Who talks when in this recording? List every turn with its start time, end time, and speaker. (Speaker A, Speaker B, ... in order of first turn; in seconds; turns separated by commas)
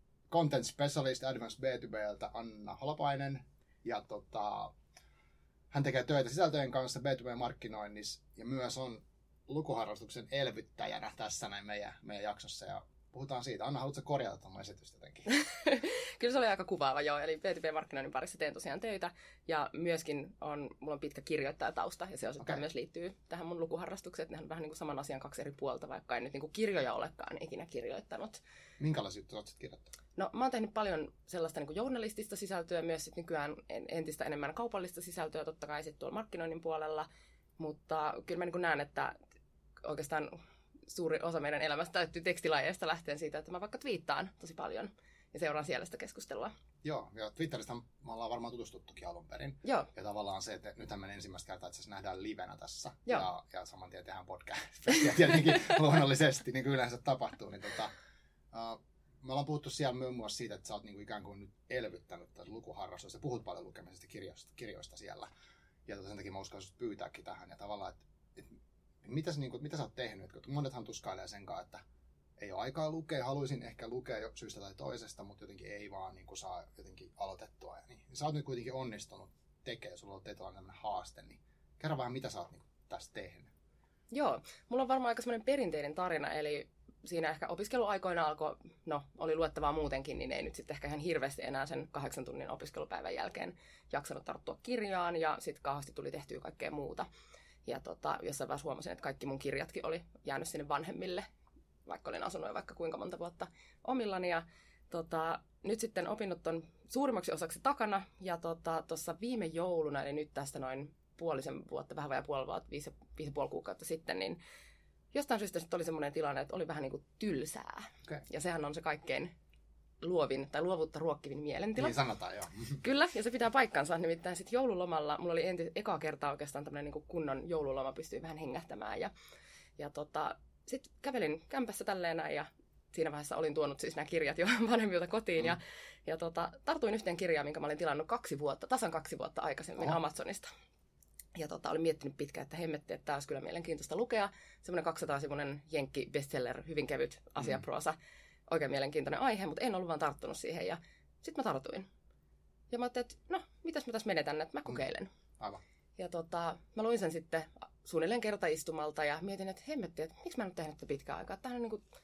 Speaker A: 0.3-4.7, Speaker A: 5.7-15.3, Speaker B: 15.3-28.4, Speaker A: 28.8-29.9, Speaker B: 30.2-39.2, Speaker B: 39.8-46.5, Speaker A: 46.8-57.9, Speaker B: 49.6-49.9, Speaker A: 58.5-65.3, Speaker A: 65.9-71.8, Speaker A: 72.4-83.5, Speaker B: 84.1-97.1, Speaker B: 97.7-101.3, Speaker B: 101.8-114.4, Speaker B: 115.1-119.3, Speaker B: 120.0-122.0, Speaker A: 121.8-122.8, Speaker B: 122.8-129.1, Speaker B: 129.8-140.5, Speaker B: 141.3-151.9, Speaker B: 152.7-155.1, Speaker B: 156.0-161.8